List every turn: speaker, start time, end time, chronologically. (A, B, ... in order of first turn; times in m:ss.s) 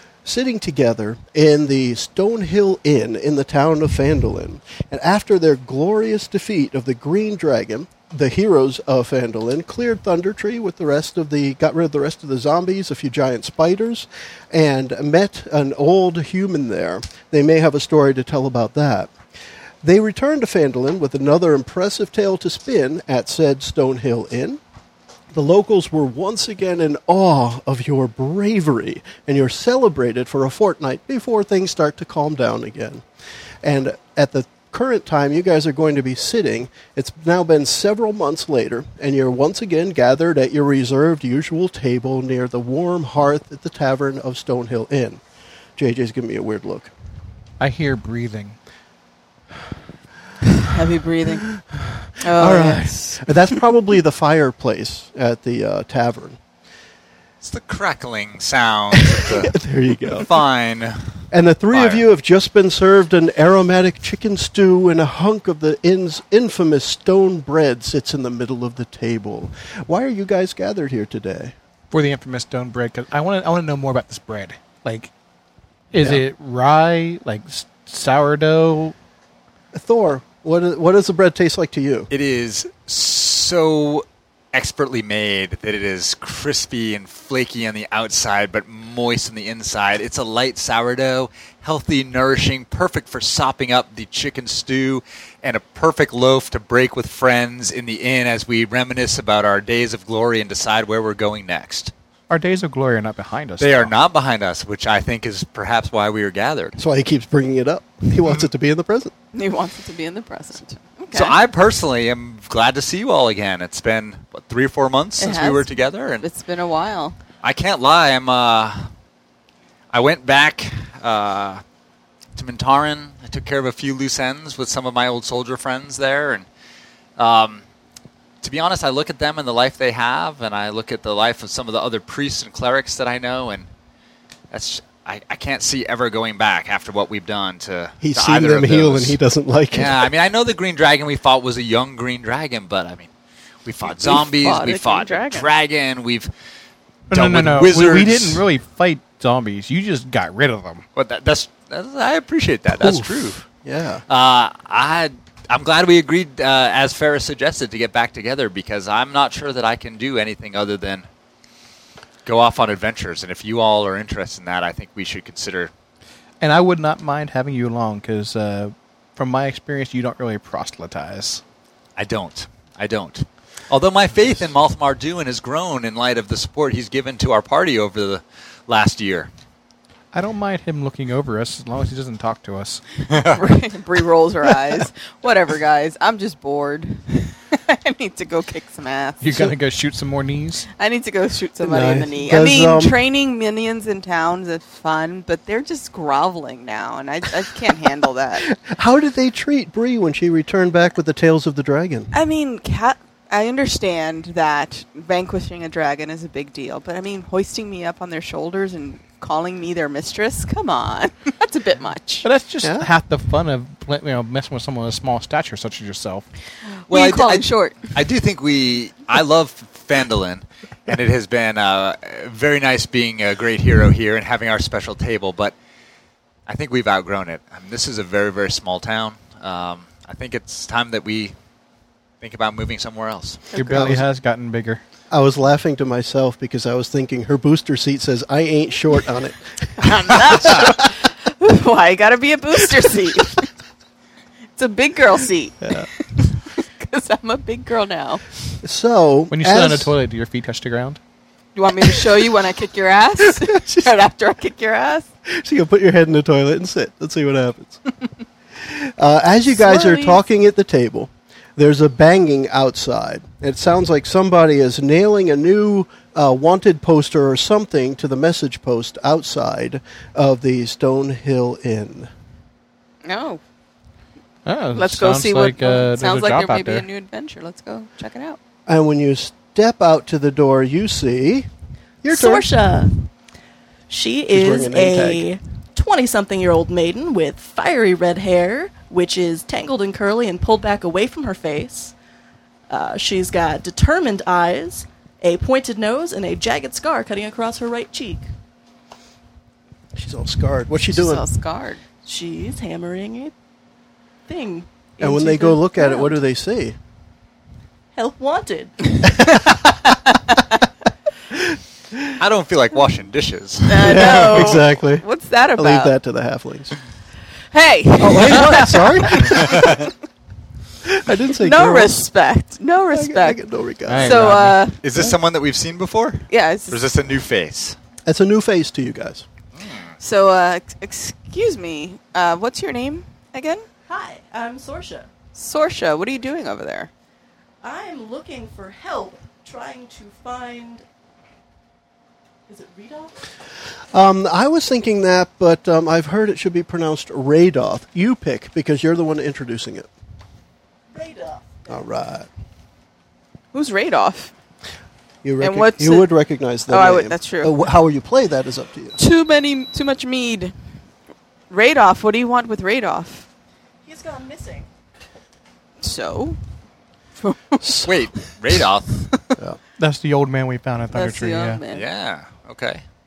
0:00.2-0:19.1 A
0:19.8-0:24.6 A
0:25.3-0:33.0 A
0:33.6-0:45.2 A
0:45.8-0:46.9 A
0:47.6-0:48.6 B
0:50.6-0:51.5 C
0:51.6-0:56.4 A
0:52.2-0:53.2 C
0:57.4-1:01.1 D
0:58.9-1:00.3 A
1:01.3-1:11.5 A
1:01.7-1:02.0 D
1:11.9-1:15.1 B
1:15.9-1:18.9 B
1:19.7-1:22.1 A
1:22.1-1:41.9 D
1:42.3-1:43.9 B
1:43.6-1:46.8 D
1:46.8-1:49.1 A
1:49.3-1:51.4 C
1:51.1-1:56.2 D
1:55.2-1:57.2 C
1:57.4-1:58.9 D
1:59.9-2:01.6 D
2:02.4-2:06.4 D
2:07.2-2:07.6 D
2:08.4-2:13.7 D
2:14.5-2:19.2 D
2:18.0-2:20.1 A
2:19.7-2:23.1 D
2:23.6-2:26.3 D
2:23.8-2:25.5 C
2:27.1-2:30.8 B
2:27.1-2:28.4 D
2:31.0-2:33.4 D
2:32.8-2:34.0 A
2:34.1-2:41.0 D
2:42.2-2:45.7 D
2:46.4-2:51.4 B
2:52.0-2:59.3 D
3:00.1-3:02.8 B
3:03.1-3:03.4 D
3:03.2-3:09.2 C
3:09.2-3:10.7 B
3:10.7-3:18.4 C
3:11.6-3:13.0 A
3:18.4-3:22.1 A
3:22.1-3:32.3 C
3:32.2-3:36.2 B
3:32.6-3:32.9 A
3:36.9-3:37.8 C
3:36.9-3:45.5 D
3:46.5-3:51.3 D
3:52.2-3:53.6 D
3:53.5-3:54.8 B
3:53.6-3:54.0 C
3:53.7-3:54.0 A
3:55.1-4:00.7 A
3:59.8-4:03.5 C
4:04.6-4:08.2 C
4:05.6-4:05.9 A
4:08.6-4:09.9 A
4:09.3-4:11.0 B
4:11.5-4:15.1 C
4:13.2-4:13.9 A
4:15.3-4:17.8 A
4:18.6-4:32.1 A
4:19.5-4:20.2 C
4:33.0-4:33.4 C
4:34.4-4:36.9 B
4:34.7-4:38.4 C
4:38.7-4:41.5 A
4:42.0-4:42.5 A
4:42.1-4:42.9 E
4:43.9-4:51.9 E
4:44.3-4:45.3 A
4:52.7-4:58.3 E
4:59.9-5:01.2 A
5:00.9-5:01.8 C
5:02.0-5:03.3 E
5:04.3-5:06.2 E
5:05.0-5:06.7 A
5:07.9-5:08.7 E
5:11.3-5:12.1 A
5:12.2-5:14.6 D
5:13.7-5:15.9 C
5:13.8-5:15.0 A
5:15.6-5:16.7 A
5:17.5-5:19.9 C
5:18.0-5:19.9 A
5:19.5-5:19.8 D
5:20.8-5:22.1 A
5:21.3-5:23.4 C
5:22.9-5:24.2 A
5:23.8-5:24.6 B
5:24.0-5:24.8 C
5:24.8-5:27.8 D
5:26.3-5:26.8 C
5:28.0-5:29.2 A
5:29.6-5:29.9 D
5:30.0-5:33.6 C
5:33.9-5:35.1 E
5:35.3-5:36.9 C
5:37.6-5:40.8 E
5:42.5-5:43.1 E
5:43.9-5:49.9 A
5:50.9-5:51.7 E
5:51.7-5:52.3 A
5:53.5-5:54.3 C
5:55.2-5:59.0 A
5:55.4-5:56.1 C
5:56.7-5:57.5 C
5:59.0-6:00.5 C
6:01.5-6:03.2 C
6:03.8-6:04.7 E
6:05.8-6:06.4 C
6:07.2-6:07.9 C
6:07.6-6:07.9 A
6:07.8-6:09.1 D
6:09.8-6:11.6 B
6:10.9-6:11.8 C
6:11.7-6:12.8 D